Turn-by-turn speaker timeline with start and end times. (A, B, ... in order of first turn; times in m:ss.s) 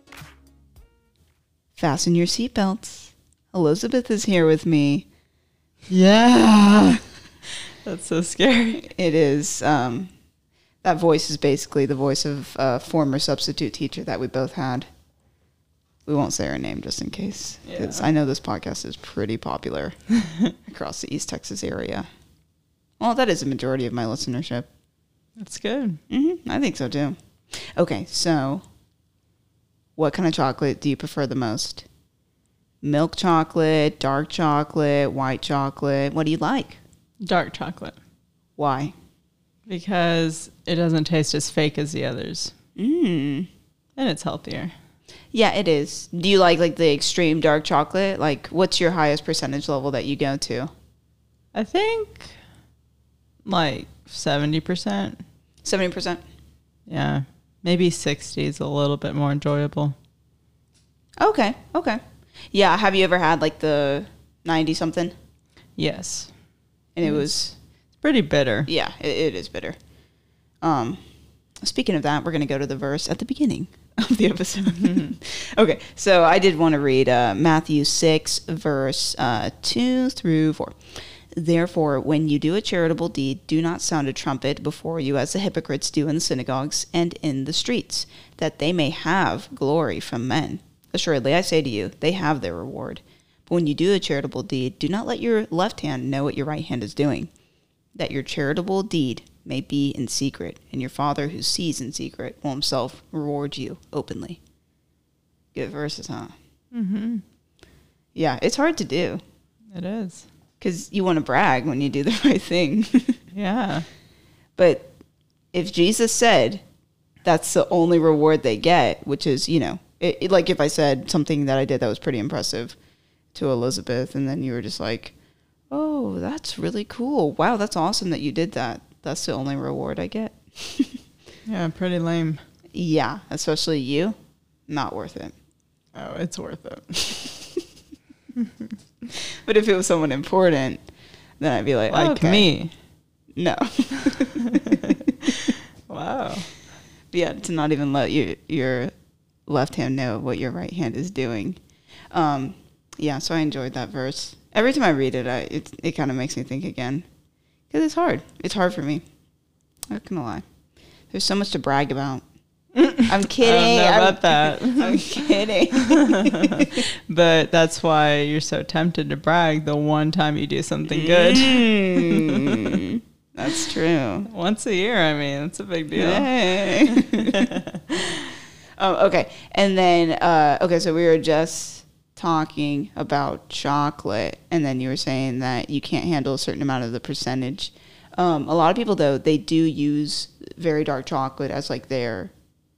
0:01.8-0:05.1 A
0:05.9-0:07.0 B
0:07.8-0:08.9 B
0:08.8-0:10.1 A
0:10.8-0:14.9 A
0:16.1-0:20.0 A
0:17.6-0:18.1 B
0:20.7-0:22.1 A
0:23.0-0:24.7 A
0:25.4-0:26.0 B
0:26.1-0:28.6 A
0:30.0-0:31.9 A
0:32.8-0:36.8 A
0:37.2-0:38.0 B
0:38.6-0:38.9 A
0:39.7-0:42.5 B
0:42.8-0:43.5 A
0:44.0-0:44.7 B
0:45.3-0:50.7 A
0:51.5-0:52.3 B
0:53.4-0:55.2 B
0:55.6-0:56.2 A
0:56.9-1:00.0 B
1:01.2-1:02.0 A
1:02.5-1:05.1 A
1:05.8-1:06.3 B
1:07.0-1:07.5 A
1:07.0-1:07.3 B
1:08.0-1:08.7 B
1:08.7-1:09.8 A
1:10.6-1:11.0 A
1:11.6-1:20.8 A
1:14.7-1:15.2 B
1:21.3-1:37.3 A
1:38.0-1:44.4 A
1:45.5-1:46.3 A
1:46.7-1:47.2 B
1:48.2-1:49.2 A
1:49.7-1:50.2 B
1:50.6-1:53.2 A
1:53.3-1:53.9 B
1:54.6-1:54.9 A
1:55.5-1:56.6 A
1:57.2-2:02.8 A
2:03.3-2:05.1 A
2:05.7-2:11.0 A
2:11.5-2:12.4 B
2:12.8-2:14.2 A
2:14.7-2:15.3 A
2:16.0-2:17.3 B
2:18.4-2:18.7 B
2:19.4-2:20.8 A
2:21.4-2:22.5 A
2:21.9-2:22.7 B
2:23.4-2:24.9 A
2:24.4-2:26.5 B
2:27.1-2:28.9 A
2:29.5-2:31.6 A
2:32.1-2:37.0 A
2:37.7-2:39.0 A
2:39.9-2:40.4 A
2:41.1-2:42.2 A
2:42.8-2:45.1 B
2:43.1-2:46.8 A
2:45.7-2:52.8 B
2:50.9-2:54.3 A
2:54.2-2:58.3 B
2:56.0-2:57.5 A
2:58.8-3:12.3 A